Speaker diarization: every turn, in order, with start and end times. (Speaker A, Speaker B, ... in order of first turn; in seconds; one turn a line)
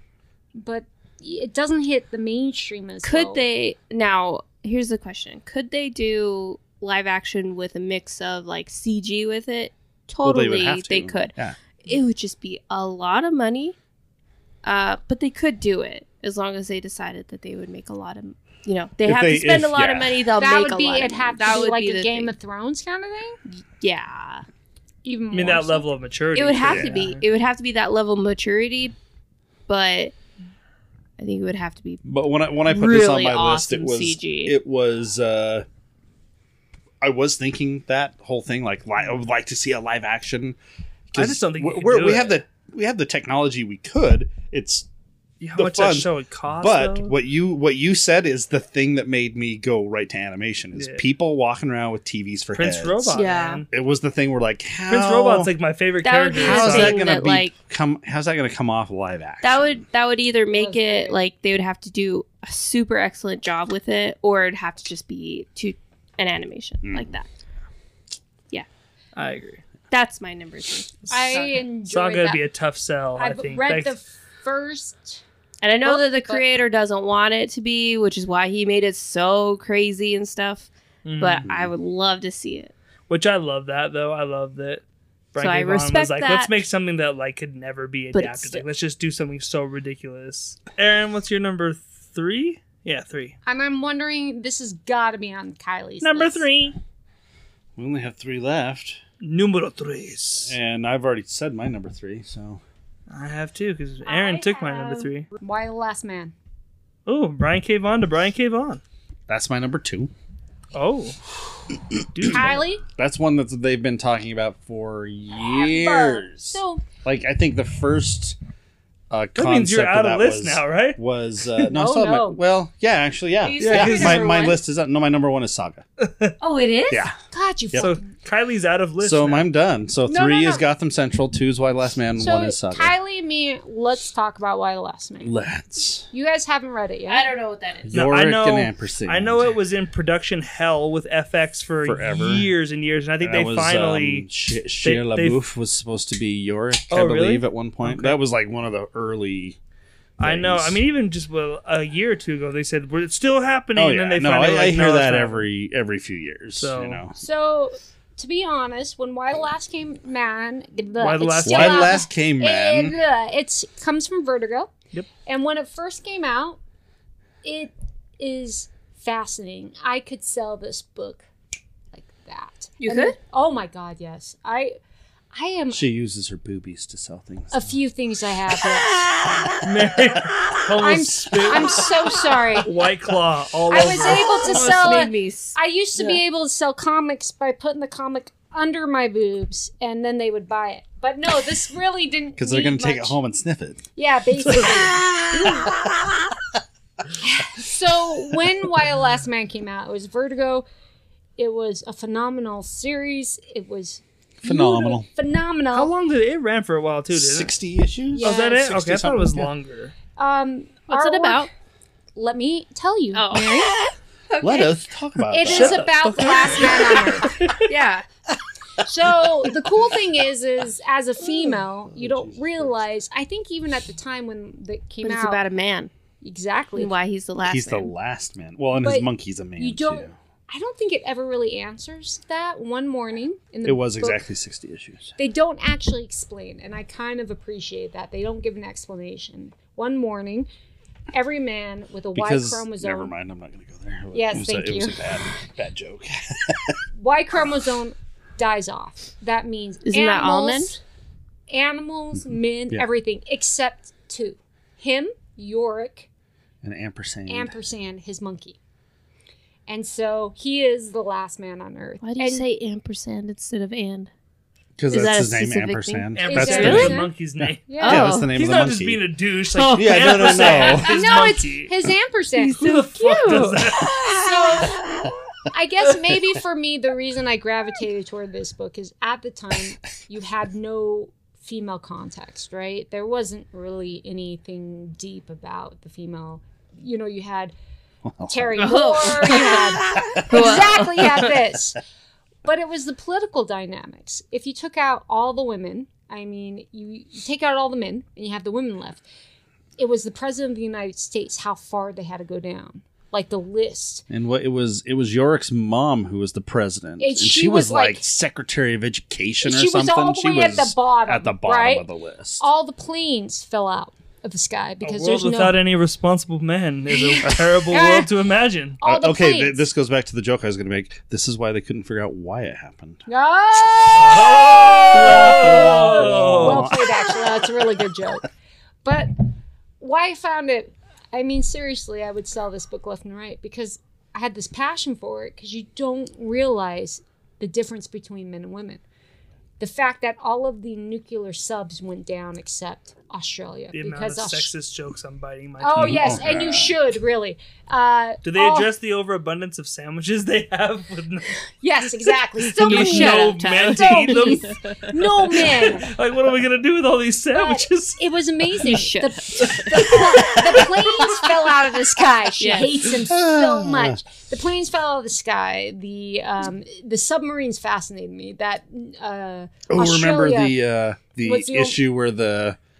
Speaker A: 0.5-3.4
Speaker B: 3.0-13.8
Speaker C: 10.2-11.6
Speaker B: 14.6-22.3
Speaker C: 19.0-20.3
Speaker A: 20.4-23.4
Speaker B: 23.5-24.4
Speaker A: 25.0-25.9
Speaker D: 25.3-27.2
Speaker B: 26.3-28.9
Speaker C: 26.6-26.9
Speaker B: 29.7-30.1
Speaker B: 31.2-32.0
Speaker C: 32.0-35.6
Speaker B: 32.6-34.5
Speaker C: 37.0-40.6
Speaker C: 41.1-44.9
Speaker D: 41.1-42.4
Speaker D: 45.4-47.1
Speaker C: 45.5-55.5
Speaker D: 50.7-51.0
Speaker D: 52.5-53.7
Speaker B: 53.1-53.6
Speaker D: 54.9-57.0
Speaker B: 56.0-57.5
Speaker C: 56.4-59.8
Speaker B: 59.4-67.3
Speaker A: 60.5-61.2
Speaker C: 66.8-67.1
Speaker D: 69.1-69.6
Speaker B: 69.9-71.6
Speaker A: 71.1-72.4
Speaker D: 71.9-73.9
Speaker A: 73.2-75.2
Speaker B: 75.6-82.7
Speaker A: 75.8-76.5
Speaker D: 81.0-81.4
Speaker C: 81.4-81.7
Speaker D: 83.1-93.3
Speaker B: 85.4-86.6
Speaker B: 88.1-88.6
Speaker A: 93.5-96.4
Speaker D: 96.0-96.8
Speaker C: 97.8-99.0
Speaker D: 99.2-100.5
Speaker C: 100.4-102.6
Speaker D: 103.1-105.3
Speaker A: 104.0-106.3
Speaker D: 107.1-108.8
Speaker C: 109.3-110.1
Speaker D: 110.7-111.2
Speaker D: 112.1-112.6
Speaker A: 112.3-112.8
Speaker C: 113.0-118.4
Speaker A: 115.3-116.8
Speaker C: 119.1-125.8
Speaker D: 119.3-121.0
Speaker A: 121.7-122.4
Speaker B: 123.4-124.5
Speaker D: 123.6-124.5
Speaker D: 126.0-126.3
Speaker B: 126.4-127.0
Speaker C: 126.9-127.1
Speaker A: 127.2-128.0
Speaker D: 127.8-129.5
Speaker C: 129.0-132.9
Speaker A: 130.1-130.7
Speaker A: 132.2-135.3
Speaker C: 135.2-136.1
Speaker A: 136.1-137.3
Speaker B: 137.1-137.9
Speaker C: 137.8-139.5
Speaker D: 137.9-144.3
Speaker C: 141.8-142.5
Speaker C: 143.2-149.6
Speaker D: 144.8-145.4
Speaker D: 146.9-148.2
Speaker C: 150.2-150.8
Speaker D: 150.2-155.5
Speaker C: 153.8-157.2
Speaker D: 156.6-157.0
Speaker A: 157.2-164.7
Speaker D: 161.0-162.1
Speaker C: 161.4-163.0
Speaker A: 165.2-166.6
Speaker A: 167.4-171.2
Speaker A: 171.9-174.8
Speaker B: 172.8-173.1
Speaker A: 175.3-175.8
Speaker C: 175.7-177.8
Speaker A: 177.5-178.9
Speaker D: 179.6-181.8
Speaker A: 180.8-182.7
Speaker D: 182.6-185.1
Speaker A: 183.7-193.2
Speaker B: 184.4-186.2
Speaker C: 192.3-193.8
Speaker A: 193.9-195.7
Speaker D: 194.5-194.8
Speaker A: 197.2-200.7
Speaker A: 201.4-205.9
Speaker C: 204.4-205.1
Speaker D: 205.7-207.5
Speaker C: 207.1-209.5
Speaker A: 208.1-208.6
Speaker D: 208.2-209.9
Speaker A: 210.2-211.5
Speaker B: 210.9-211.5
Speaker A: 212.1-213.4
Speaker B: 213.1-214.8
Speaker C: 214.4-217.3
Speaker A: 215.3-217.3
Speaker D: 215.5-217.5
Speaker B: 217.7-218.0
Speaker A: 218.8-225.4
Speaker C: 219.1-219.7
Speaker C: 221.8-222.8
Speaker B: 225.0-225.9
Speaker A: 226.2-226.9
Speaker B: 226.8-227.9
Speaker C: 227.4-230.1
Speaker A: 228.8-234.2
Speaker C: 233.6-235.1
Speaker A: 235.2-240.5
Speaker A: 241.1-243.1
Speaker C: 242.1-246.8
Speaker A: 244.1-245.0
Speaker A: 246.9-250.8
Speaker B: 249.8-250.8
Speaker A: 251.5-256.1
Speaker C: 256.6-257.6
Speaker A: 257.3-258.6
Speaker A: 259.7-262.4
Speaker B: 262.0-264.1
Speaker C: 264.8-269.0
Speaker B: 264.9-267.0
Speaker D: 266.1-267.6
Speaker A: 266.2-267.1
Speaker A: 267.7-268.1
Speaker B: 267.8-268.3
Speaker D: 268.2-271.7
Speaker B: 269.5-270.9
Speaker C: 269.7-271.2
Speaker A: 270.8-272.6
Speaker B: 272.4-274.3
Speaker D: 272.6-273.9
Speaker A: 274.2-274.9
Speaker A: 275.5-287.5
Speaker C: 288.0-289.0
Speaker A: 288.3-291.8
Speaker B: 288.6-291.3
Speaker C: 290.0-291.2
Speaker A: 292.4-299.0
Speaker A: 299.8-304.0
Speaker C: 304.1-312.4
Speaker A: 307.0-308.0
Speaker A: 309.4-311.9
Speaker A: 312.4-315.6
Speaker D: 314.8-318.8
Speaker A: 316.9-318.1
Speaker C: 317.2-317.6
Speaker A: 318.8-319.6
Speaker C: 318.8-323.1
Speaker A: 323.1-328.3
Speaker C: 323.8-327.9
Speaker D: 323.9-326.7
Speaker A: 328.8-329.1
Speaker A: 329.8-338.8
Speaker A: 339.6-344.5
Speaker D: 343.7-346.2
Speaker A: 345.6-348.7
Speaker C: 345.8-346.8
Speaker D: 348.2-351.4
Speaker A: 351.6-355.9
Speaker D: 352.6-354.5
Speaker B: 352.6-354.8
Speaker D: 355.3-358.0
Speaker A: 357.3-370.6
Speaker B: 358.6-359.9
Speaker D: 359.7-360.4
Speaker B: 362.4-362.8
Speaker C: 363.0-364.0
Speaker C: 369.7-372.6
Speaker A: 371.2-371.8